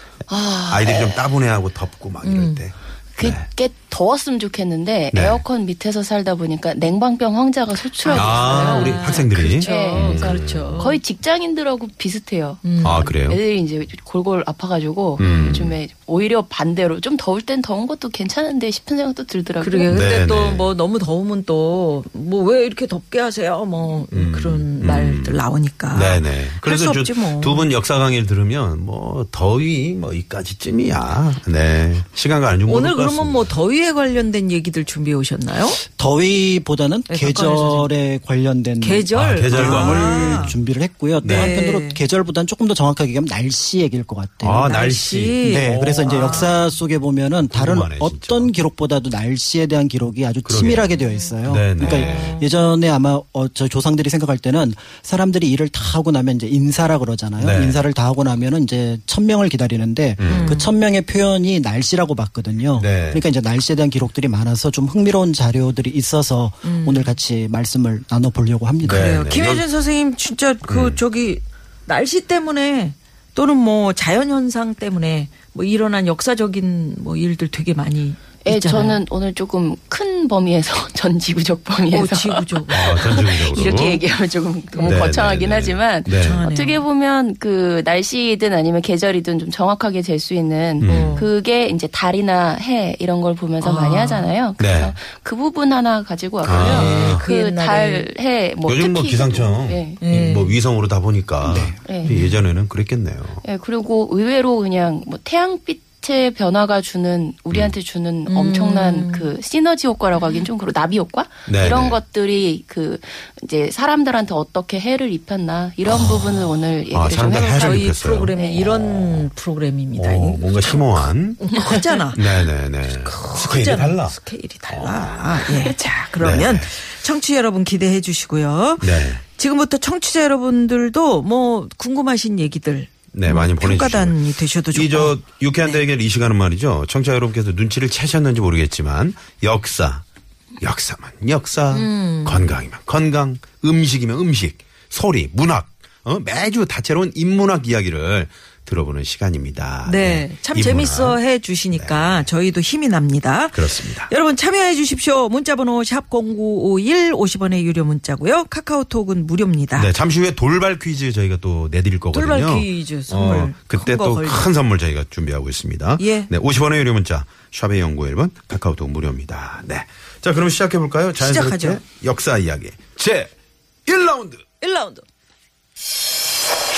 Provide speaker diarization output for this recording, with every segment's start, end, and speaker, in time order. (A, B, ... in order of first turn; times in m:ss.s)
0:00.3-0:01.2 A
0:00.7-0:03.4 B
0:02.2-0:02.6 C
0:03.2-0:19.9 A
0:05.1-0:05.4 B
0:08.0-0:11.0 C
0:08.1-0:10.8 B
0:12.6-0:13.1 C
0:12.8-0:13.4 B
0:15.2-0:15.7 B
0:15.2-0:15.6 C
0:19.6-0:27.7 C
0:19.9-0:20.7 B
0:24.1-0:25.4 B
0:25.9-0:33.5 B
0:32.7-0:35.8 C
0:35.9-0:44.7 D
0:37.1-0:37.9 C
0:38.8-0:40.5 C
0:39.1-0:40.6 B
0:41.2-0:41.6 B
0:41.3-0:42.0 C
0:44.4-0:46.6 B
0:44.6-0:46.6 C
0:45.4-1:09.2 D
0:47.5-0:48.5 B
0:50.4-0:50.9 B
0:50.9-0:52.5 C
0:51.4-0:52.3 B
0:57.4-0:57.8 B
1:00.2-1:00.6 B
1:00.2-1:00.7 C
1:02.8-1:03.2 B
1:06.6-1:07.1 C
1:08.8-1:09.6 B
1:08.9-1:19.0 C
1:10.6-1:11.0 B
1:18.4-1:40.0 A
1:21.9-1:23.2 C
1:22.7-1:24.0 B
1:24.7-1:25.0 C
1:24.8-1:26.4 B
1:26.2-1:26.8 C
1:30.8-1:31.2 B
1:30.8-1:31.3 C
1:33.6-1:34.3 C
1:34.6-1:34.9 B
1:36.4-1:37.2 B
1:36.5-1:38.1 C
1:38.6-1:43.4 B
1:40.0-1:40.6 C
1:41.4-1:41.8 D
1:41.9-1:42.1 A
1:42.0-1:42.4 C
1:43.4-1:58.7 A
1:48.3-1:49.3 C
1:51.5-1:52.0 B
1:56.9-1:59.3 B
1:57.2-2:00.9 C
2:00.0-2:01.4 B
2:01.4-2:02.2 C
2:02.1-2:04.2 B
2:03.0-2:15.8 C
2:04.7-2:05.4 B
2:06.2-2:06.7 B
2:08.8-2:09.2 B
2:13.1-2:14.2 B
2:14.7-2:20.0 B
2:20.6-2:31.2 B
2:21.7-2:22.5 C
2:29.8-2:39.9 C
2:31.7-2:32.3 B
2:33.5-2:34.1 B
2:39.8-2:53.3 B
2:42.1-2:44.5 C
2:46.0-2:46.3 C
2:51.2-2:51.8 C
2:53.8-2:54.4 B
2:54.6-2:55.0 C